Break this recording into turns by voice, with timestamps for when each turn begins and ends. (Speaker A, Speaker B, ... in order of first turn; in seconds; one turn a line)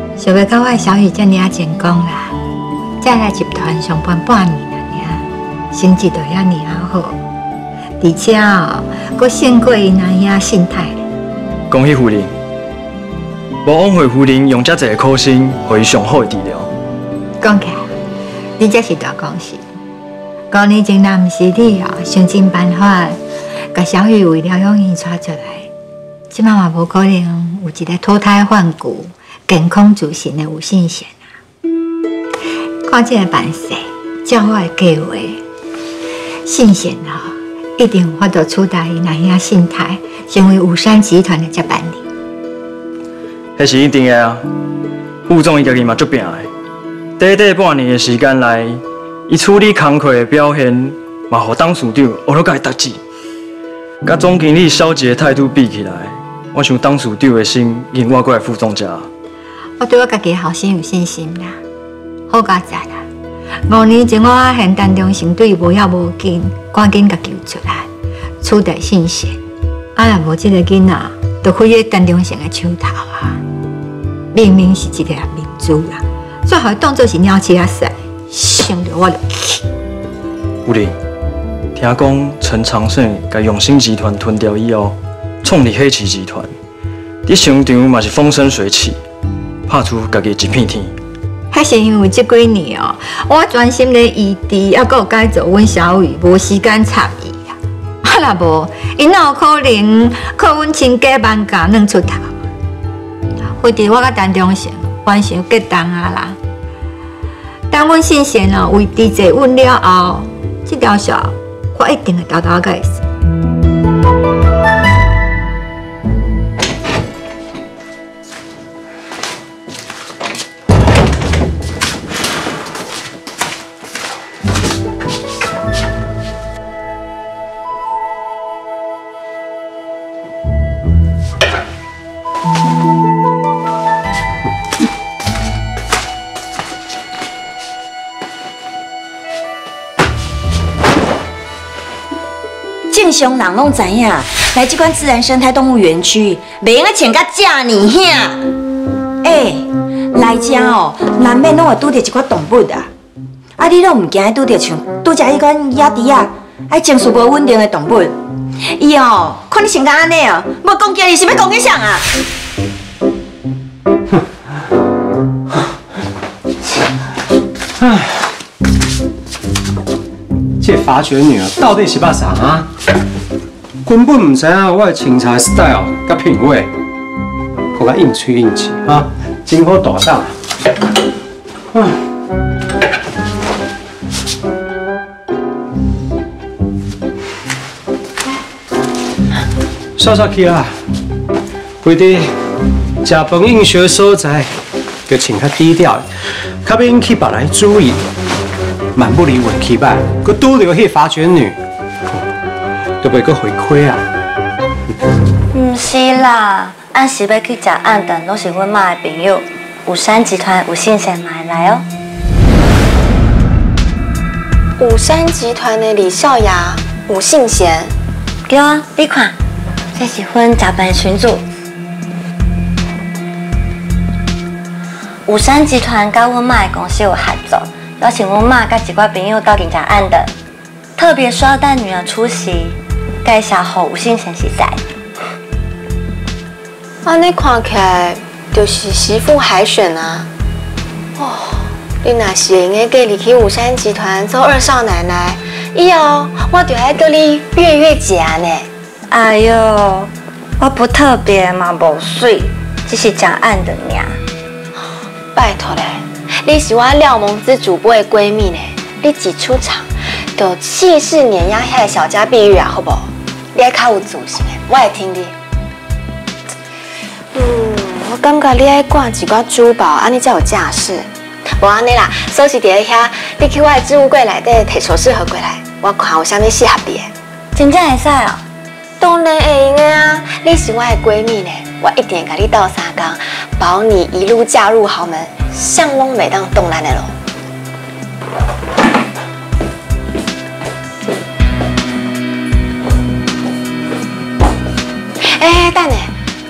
Speaker A: 0.2-2.4
Speaker A: 3.0-7.2
Speaker A: 8.0-11.0
Speaker B: 11.7-12.3
Speaker B: 13.6-16.7
Speaker A: 17.4-17.9
Speaker A: 18.6-19.6
Speaker A: 20.5-23.2
Speaker A: 23.7-25.7
Speaker A: 26.3-31.3
Speaker A: 32.8-35.4
Speaker A: 36.5-42.0
Speaker B: 43.6-44.4
Speaker B: 45.3-46.5
Speaker B: 47.2-53.0
Speaker B: 54.0-59.1
Speaker A: 59.8-61.6
Speaker A: 62.3-63.0
Speaker A: 63.7-67.9
Speaker A: 68.4-69.4
Speaker A: 70.0-73.4
Speaker A: 74.3-79.6
Speaker B: 80.6-80.9
Speaker B: 81.7-86.5
Speaker B: 87.2-89.0
Speaker B: 89.7-90.9
Speaker A: 91.5-102.3
Speaker A: 103.6-106.4
Speaker A: 107.7-113.0
Speaker C: 142.9-148.4
Speaker C: 149.2-152.9
Speaker C: 153.6-158.2
Speaker C: 158.7-162.1
Speaker D: 167.8-168.2
Speaker D: 170.6-172.7
Speaker D: 173.8-176.7
Speaker D: 177.7-180.3
Speaker D: 190.0-190.7
Speaker D: 191.8-192.3
Speaker D: 193.0-194.5
Speaker D: 195.1-196.1
Speaker D: 196.6-198.0
Speaker D: 198.9-201.6
Speaker D: 203.0-204.0
Speaker E: 205.5-211.8
Speaker F: 214.8-217.9
Speaker E: 218.5-219.3
Speaker E: 219.9-221.4
Speaker E: 225.3-230.3
Speaker E: 231.0-234.8
Speaker F: 237.0-240.3
Speaker F: 241.2-248.7
Speaker E: 249.1-254.2
Speaker F: 255.3-265.3
Speaker F: 267.3-277.1
Speaker E: 277.5-278.4
Speaker F: 279.0-287.1
Speaker F: 295.3-296.1